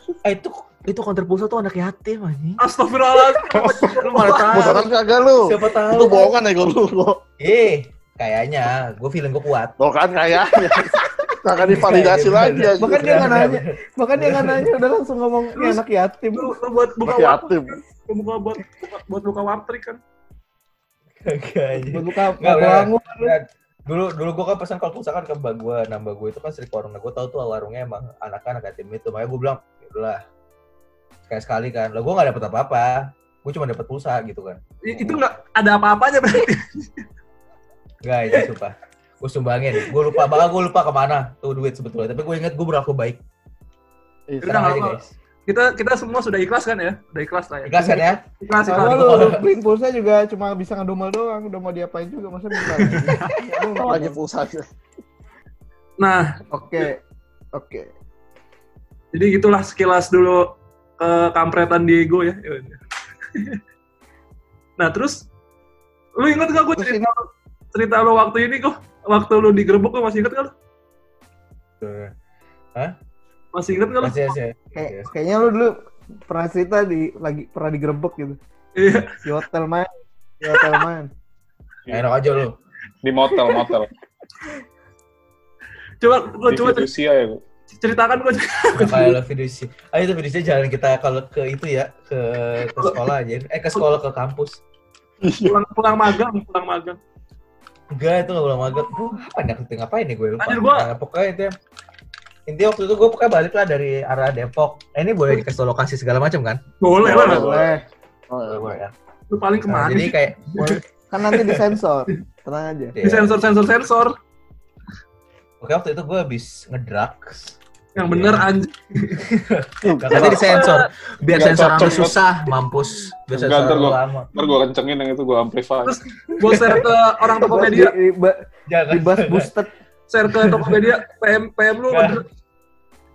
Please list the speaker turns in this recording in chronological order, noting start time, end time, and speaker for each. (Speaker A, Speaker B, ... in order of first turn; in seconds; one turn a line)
Speaker A: 0.2-2.6
Speaker B: 2.6-4.8
Speaker C: 3.8-7.2
Speaker A: 3.9-4.9
Speaker A: 5.4-6.4
Speaker A: 7.4-9.8
Speaker C: 9.8-13.0
Speaker A: 11.6-14.7
Speaker D: 12.8-16.6
Speaker B: 15.6-15.8
Speaker B: 16.4-20.0
Speaker C: 17.1-17.8
Speaker A: 21.2-30.2
Speaker D: 21.7-23.4
Speaker A: 31.3-35.2
Speaker B: 34.8-37.0
Speaker A: 38.0-43.2
Speaker B: 39.8-40.2
Speaker B: 44.4-49.1
Speaker A: 44.5-45.1
Speaker A: 47.7-49.4
Speaker D: 48.7-54.2
Speaker B: 52.6-53.4
Speaker C: 53.8-54.7
Speaker B: 56.0-56.4
Speaker D: 56.5-57.0
Speaker D: 57.5-57.9
Speaker B: 59.1-62.8
Speaker B: 63.3-63.6
Speaker B: 64.8-65.2
Speaker B: 66.2-70.5
Speaker D: 66.8-67.1
Speaker A: 71.8-72.1
Speaker B: 73.5-74.3
Speaker A: 74.0-75.1
Speaker D: 74.8-75.8
Speaker D: 76.3-78.4
Speaker B: 78.8-79.2
Speaker D: 79.2-79.9
Speaker D: 80.4-81.1
Speaker B: 80.5-80.8
Speaker A: 81.9-82.6
Speaker E: 83.0-83.9
Speaker B: 86.0-86.9
Speaker E: 86.5-87.4
Speaker B: 87.8-89.2
Speaker A: 88.8-94.6
Speaker C: 95.2-95.6
Speaker B: 95.5-97.0
Speaker A: 97.9-101.5
Speaker B: 100.4-100.9
Speaker A: 102.5-106.6
Speaker B: 106.8-107.5
Speaker C: 107.0-107.7
Speaker D: 107.1-107.8
Speaker A: 107.1-107.7
Speaker C: 108.3-108.8
Speaker A: 108.4-108.9
Speaker B: 109.3-110.2
Speaker A: 109.7-110.8
Speaker D: 110.6-113.0
Speaker A: 111.3-111.6
Speaker A: 113.0-113.4
Speaker B: 113.0-114.1
Speaker A: 115.6-117.6
Speaker B: 118.0-119.2
Speaker A: 118.1-118.5
Speaker A: 119.2-124.3
Speaker C: 119.8-120.6
Speaker B: 120.1-120.9
Speaker E: 121.3-122.2
Speaker E: 123.3-126.0
Speaker B: 125.8-128.0
Speaker D: 127.5-129.7
Speaker A: 128.7-129.5
Speaker B: 130.1-132.2
Speaker A: 130.4-130.8
Speaker A: 131.9-132.2